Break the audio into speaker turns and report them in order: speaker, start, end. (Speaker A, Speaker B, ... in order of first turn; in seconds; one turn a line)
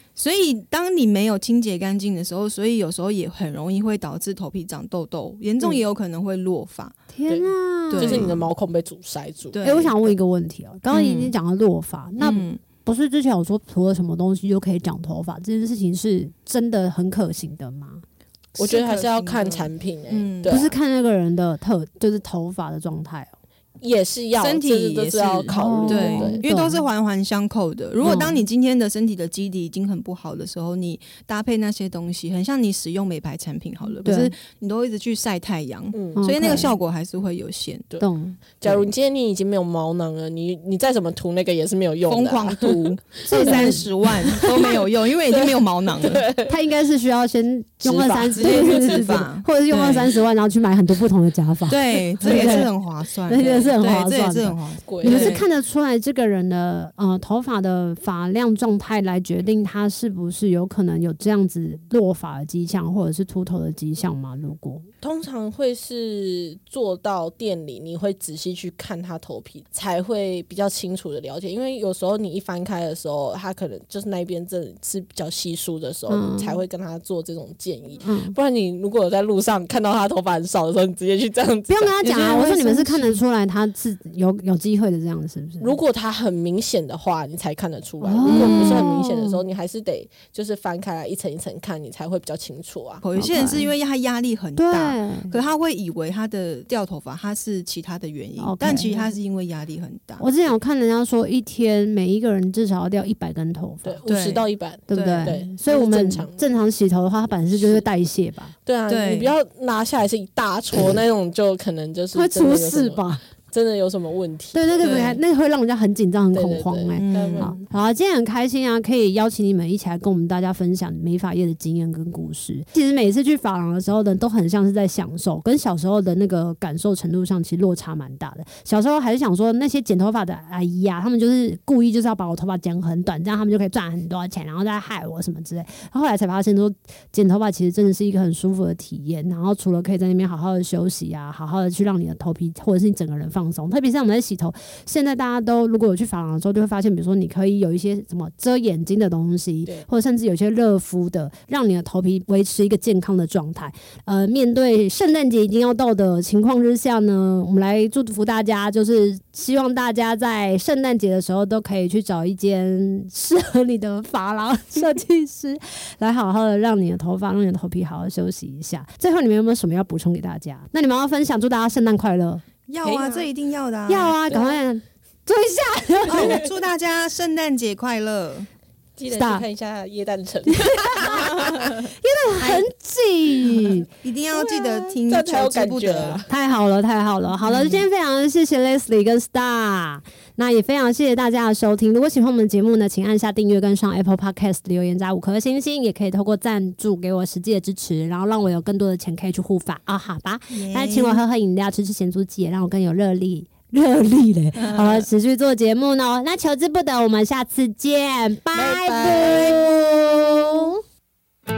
Speaker A: 0.1-7.0
Speaker B: 7.1-8.3
Speaker C: 7.3-9.7
Speaker A: 7.9-8.5
Speaker A: 9.5-9.9
Speaker B: 9.6-18.0
Speaker A: 10.9-11.3
Speaker A: 12.2-12.6
Speaker C: 18.6-20.7
Speaker A: 18.6-20.7
Speaker B: 20.5-23.3
Speaker C: 23.8-26.4
Speaker A: 24.4-37.9
Speaker B: 25.5-26.8
Speaker B: 28.0-28.4
Speaker B: 34.0-34.3
Speaker C: 35.9-36.3
Speaker B: 36.1-36.7
Speaker C: 37.9-46.6
Speaker B: 38.0-38.8
Speaker A: 42.1-46.2
Speaker B: 43.2-43.9
Speaker B: 46.5-52.7
Speaker C: 47.8-50.1
Speaker A: 48.3-49.4
Speaker A: 51.7-55.4
Speaker C: 52.2-52.7
Speaker B: 53.2-64.9
Speaker C: 53.3-53.8
Speaker C: 54.9-55.4
Speaker C: 65.0-82.0
Speaker B: 76.1-76.6
Speaker B: 78.0-78.3
Speaker B: 81.7-85.8
Speaker A: 82.0-83.2
Speaker C: 85.6-93.0
Speaker B: 88.0-89.4
Speaker A: 88.3-89.0
Speaker A: 93.0-100.2
Speaker B: 93.2-93.7
Speaker B: 94.6-95.3
Speaker B: 98.4-98.9
Speaker B: 100.2-104.0
Speaker C: 103.8-106.4
Speaker A: 104.1-105.4
Speaker B: 104.9-108.5
Speaker C: 107.5-107.8
Speaker C: 108.7-115.2
Speaker A: 108.9-109.3
Speaker B: 112.1-113.2
Speaker B: 114.5-172.4
Speaker A: 114.8-115.2
Speaker C: 116.3-117.6
Speaker A: 117.0-117.6
Speaker A: 172.7-174.2
Speaker C: 172.8-173.3
Speaker B: 173.9-176.4
Speaker A: 176.1-178.5
Speaker C: 176.1-176.5
Speaker C: 179.0-181.9
Speaker B: 179.1-179.4
Speaker B: 180.5-181.3
Speaker B: 181.9-183.9
Speaker A: 182.4-182.7
Speaker A: 183.9-186.2
Speaker C: 184.3-186.3
Speaker B: 186.3-210.8
Speaker A: 187.4-187.8
Speaker A: 200.5-201.2
Speaker A: 204.6-205.1
Speaker C: 208.5-209.6